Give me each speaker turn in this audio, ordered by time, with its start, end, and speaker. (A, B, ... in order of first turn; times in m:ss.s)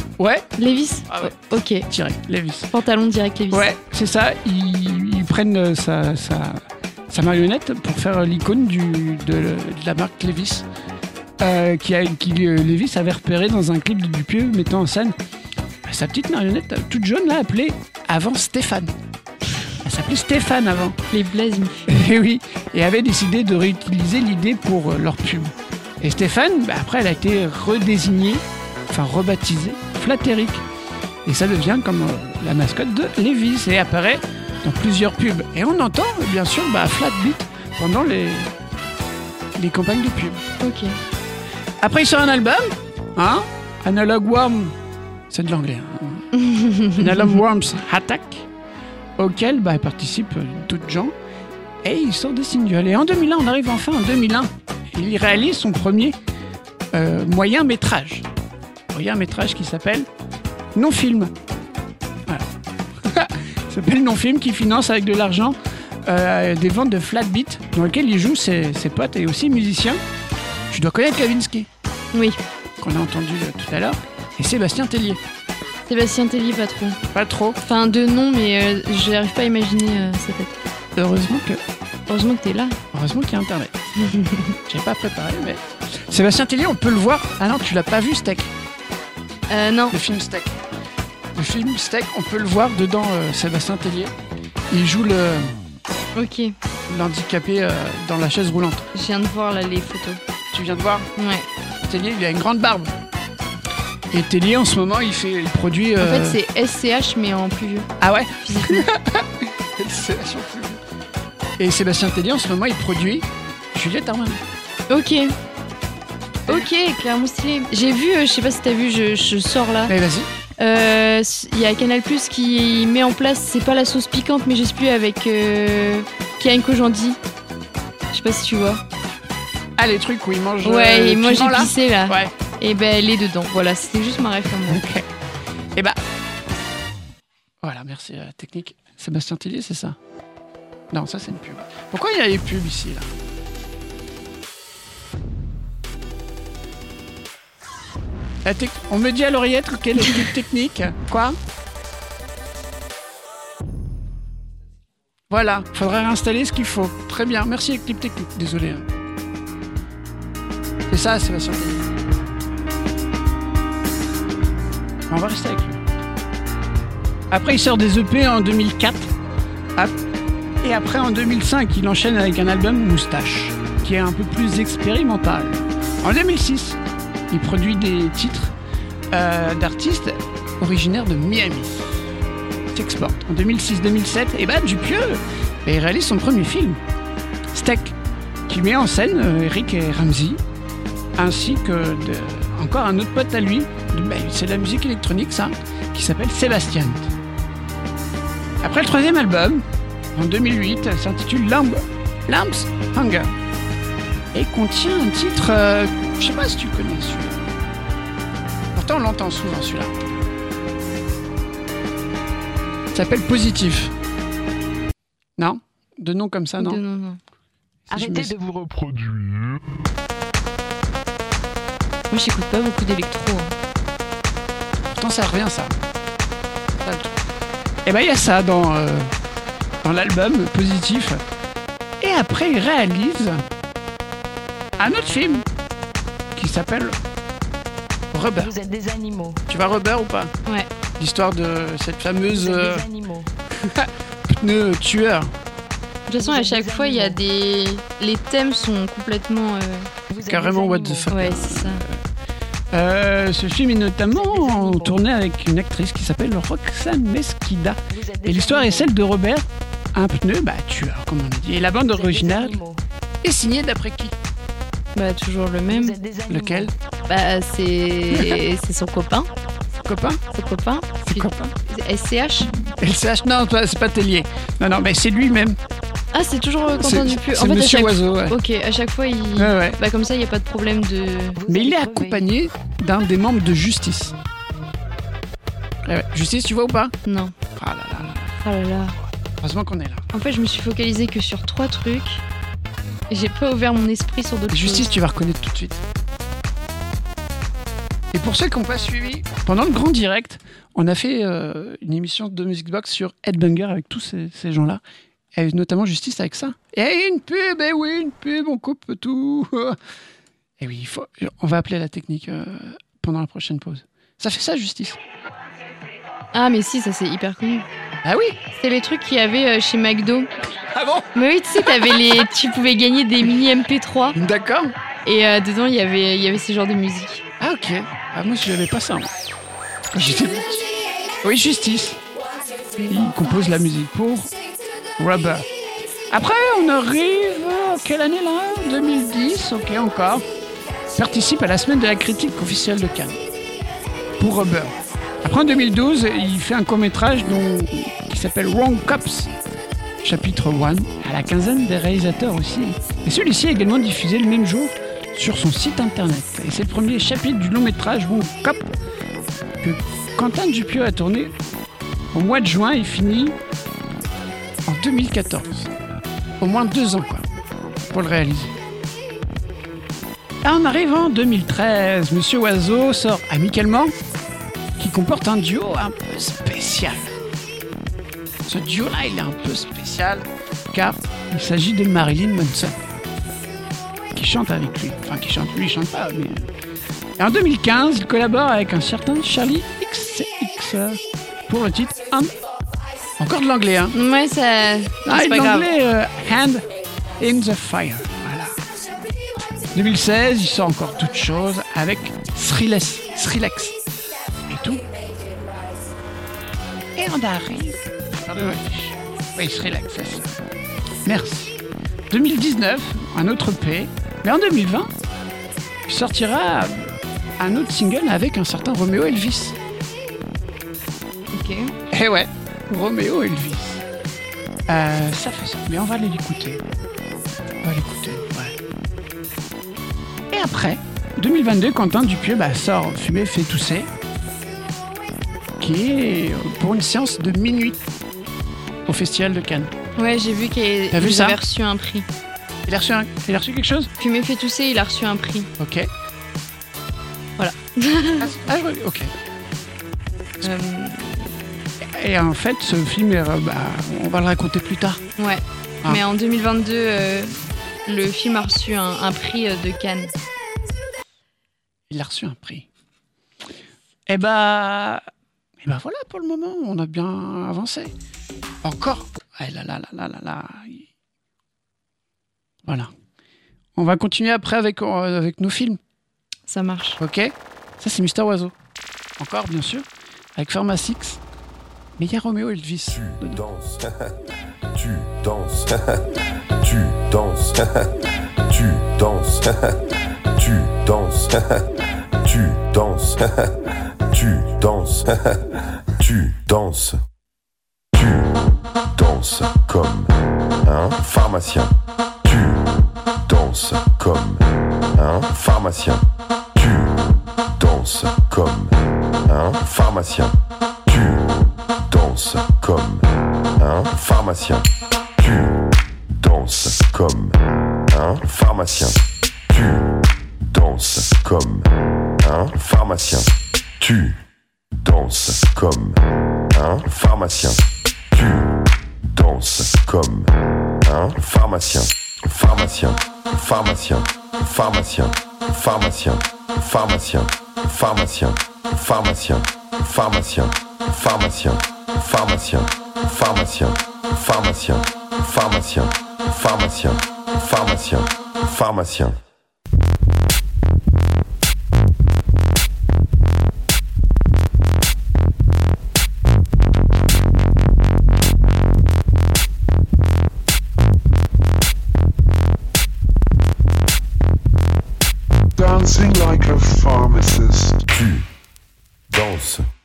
0:00.2-0:00.5 A
0:00.6-0:01.8 B
0:01.1-0:01.3 A
0:01.9-0:02.7 A
0:02.7-0:03.6 B
0:03.5-0:10.6 A
0:11.4-0:15.2 A
0:15.8-0:18.9 A
0:19.8-0:21.0 A
0:21.1-0:22.1 B
0:21.9-0:30.6 A
0:31.2-0:38.5 A
0:39.6-0:40.4 A
0:40.6-0:40.9 B
0:41.8-0:44.7 A
0:45.3-0:46.3 A
0:46.3-0:47.3 B
0:47.0-0:48.5 A
0:49.2-0:51.1 A
0:51.8-0:56.2 A
0:56.9-0:58.2 A
0:58.9-1:00.1 A
1:00.7-1:01.3 A
1:02.3-1:10.0 A
1:10.7-1:11.7 A
1:12.1-1:12.4 B
1:12.8-1:15.2 A
1:15.9-1:17.0 B
1:17.1-1:17.6 A
1:17.6-1:20.6 B
1:21.0-1:21.6 A
1:22.1-1:22.8 B
1:22.9-1:23.9 A
1:24.0-1:24.6 B
1:24.6-1:28.5 A
1:29.5-1:30.0 B
1:29.9-1:30.5 A
1:31.3-1:34.1 A
1:34.7-1:35.5 A
1:36.2-1:36.5 B
1:36.9-1:38.8 A
1:38.9-1:40.2 B
1:40.5-1:41.1 A
1:41.2-1:41.4 B
1:41.9-1:42.9 A
1:44.1-1:46.4 A
1:46.0-1:47.9 B
1:48.0-1:50.8 A
1:48.4-1:48.9 B
1:51.6-1:54.4 A
1:54.9-1:55.4 B
1:56.5-1:59.9 B
1:59.9-2:00.3 A
2:00.6-2:07.2 B
2:08.1-2:08.8 B
2:09.8-2:12.3 A
2:10.6-2:14.8 B
2:14.5-2:15.0 A
2:17.6-2:20.0 A
2:20.9-2:23.2 A
2:28.4-2:31.4 A
2:35.3-2:38.8 A
2:40.9-2:41.9 A
2:45.1-2:45.8 A
2:47.3-2:49.1 A
2:50.6-2:56.8 A
2:57.3-2:58.5 A
2:59.1-3:02.0 A
3:02.7-3:06.8 A
3:07.5-3:07.9 A
3:08.5-3:10.4 A
3:11.2-3:17.1 A
3:18.6-3:23.3 A
3:24.3-3:27.5 A
3:28.7-3:29.9 A
3:32.9-3:33.9 A
3:35.4-3:36.8 A
3:36.6-3:37.2 B
3:37.9-3:38.3 A
3:37.9-3:39.2 C
3:42.1-3:43.5 B
3:44.9-3:45.7 A
3:46.8-3:47.1 A
3:47.8-3:49.1 A
3:49.8-3:51.2 A
3:52.0-3:53.4 A
3:54.8-3:55.4 A
3:56.3-3:57.0 A
3:58.1-3:58.5 A
3:58.4-3:59.4 C
3:59.5-4:00.3 A
4:01.0-4:02.9 A
4:02.3-4:03.3 C
4:03.6-4:05.3 A
4:06.1-4:09.9 B
4:06.2-4:07.2 C
4:10.1-4:11.1 C
4:10.2-4:12.0 A
4:11.1-4:11.8 B
4:12.7-4:22.6 A
4:14.1-4:15.0 C
4:17.9-4:19.0 C
4:21.9-4:22.8 C
4:23.2-4:24.1 A
4:25.0-4:26.0 B
4:25.7-4:26.7 C
4:26.3-4:26.7 A
4:27.1-4:29.3 B
4:28.1-4:28.4 A
4:29.8-4:30.2 A
4:30.3-4:32.5 B
4:31.0-4:31.5 A
4:32.7-4:35.6 A
4:36.1-4:41.4 B
4:36.8-4:38.4 A
4:39.4-4:39.8 A
4:41.4-4:42.2 C
4:41.4-4:44.2 A
4:45.8-4:46.9 A
4:47.0-4:47.3 B
4:47.6-4:48.2 A
4:48.4-4:49.0 B
4:49.4-4:50.0 A
4:50.1-4:52.2 B
4:53.1-4:54.9 B
4:54.5-4:55.8 A
4:58.1-5:04.8 A
5:05.3-5:09.8 A
5:10.6-5:15.0 A
5:16.3-5:17.6 B
5:18.0-5:18.4 A
5:18.6-5:20.3 B
5:20.7-5:22.2 A
5:21.1-5:24.2 B
5:24.1-5:24.7 A
5:25.0-5:27.2 B
5:27.4-5:29.1 A
5:29.9-5:32.0 A
5:32.8-5:33.1 B
5:32.8-5:34.3 A
5:35.0-5:35.4 A
5:36.1-5:40.2 A
5:40.9-5:43.2 A
5:44.2-5:49.3 A
5:50.0-5:58.7 A
5:59.6-6:01.3 A
6:02.1-6:03.4 A
6:04.7-6:05.7 A
6:06.4-6:07.2 A
6:07.9-6:08.5 A
6:10.4-6:14.0 A
6:14.8-6:17.1 A
6:18.4-6:22.8 A
6:24.1-6:26.4 A
6:27.2-6:32.4 A
6:33.2-6:34.0 A
6:33.9-6:35.7 B
6:35.0-6:36.6 A
6:37.2-6:38.6 A
6:39.7-6:43.7 A
6:44.4-6:44.8 A
6:46.9-6:50.4 A
6:51.0-6:51.6 A
6:52.1-6:54.9 A
6:55.9-6:59.6 A
7:01.3-7:01.7 B
7:01.9-7:03.8 A
7:04.7-7:06.6 A
7:07.6-7:08.6 A
7:10.3-7:13.9 A
7:15.6-7:17.8 A
7:18.9-7:19.7 A
7:20.0-7:22.0 B
7:20.9-7:21.4 A
7:22.7-7:23.9 A
7:24.0-7:25.5 B
7:25.6-7:25.9 A
7:27.4-7:28.3 B
7:28.2-7:29.1 A
7:30.4-7:31.3 B
7:31.9-7:35.0 A
7:35.2-7:37.3 B
7:37.8-7:40.1 B
7:41.9-7:42.6 A
7:44.1-7:45.0 A
7:45.6-7:47.9 A
7:48.6-7:50.8 A
7:53.8-7:55.8 A
7:56.5-7:57.0 B
7:57.0-7:58.5 A
7:59.2-8:01.2 A
8:02.0-8:03.4 A
8:03.5-8:04.0 D
8:04.8-8:06.0 D
8:06.6-8:07.9 D
8:08.5-8:09.7 D
8:10.4-8:11.6 D
8:12.2-8:13.5 D
8:14.1-8:15.4 D
8:16.0-8:17.0 D
8:18.0-8:18.3 D
8:18.9-8:20.1 D
8:20.6-8:21.7 D
8:22.3-8:22.6 D
8:23.3-8:24.4 D
8:25.0-8:26.0 D
8:26.6-8:26.9 D
8:27.6-8:28.7 D
8:29.3-8:30.3 D
8:30.9-8:31.2 D
8:31.9-8:33.0 D
8:33.6-8:34.7 D
8:35.2-8:35.5 D
8:36.2-8:37.3 D
8:37.9-8:39.0 D
8:39.5-8:39.8 D
8:40.5-8:41.6 D
8:42.2-8:43.3 D
8:43.8-8:44.2 D
8:44.8-8:46.0 D
8:46.5-8:47.6 D
8:48.1-8:48.5 D
8:49.1-8:50.3 D
8:50.8-9:09.2 D
9:25.6-9:27.9 E
9:29.1-9:29.7 D